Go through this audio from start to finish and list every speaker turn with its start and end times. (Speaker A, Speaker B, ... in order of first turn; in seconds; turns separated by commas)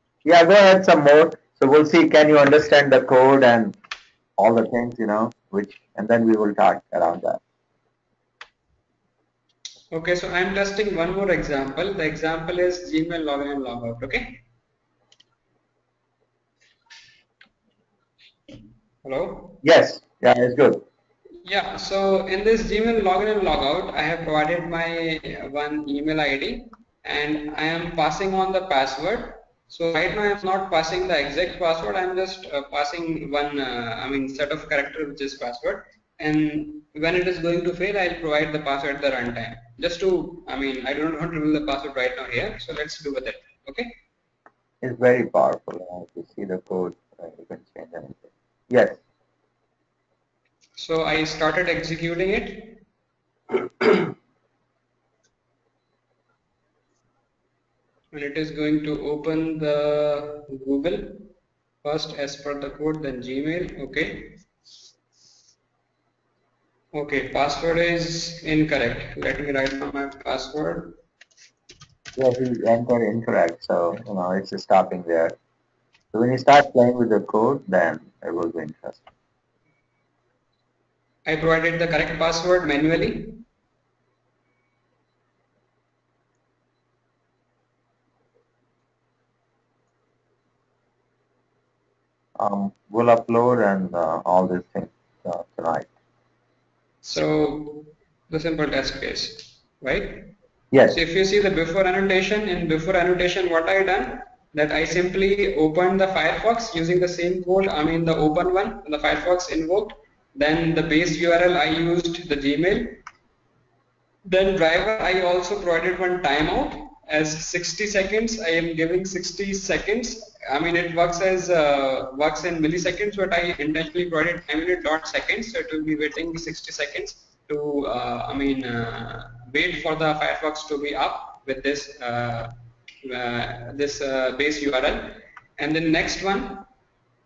Speaker A: 0.2-3.7, Speaker A: 4.4-7.4, Speaker B: 9.9-14.4, Speaker B: 19.0-19.6, Speaker A: 19.6-20.8, Speaker B: 21.4-43.9, Speaker A: 44.8-49.0, Speaker B: 50.8-52.8, Speaker B: 53.5-54.1, Speaker B: 58.1-61.3, Speaker B: 61.8-64.4, Speaker B: 66.9-71.0, Speaker A: 72.2-75.4, Speaker A: 76.1-79.0, Speaker B: 81.2-83.4, Speaker A: 92.4-95.9, Speaker B: 97.0-100.3, Speaker A: 100.7-101.0, Speaker B: 100.9-113.0, Speaker B: 114.2-132.5, Speaker B: 133.0-136.7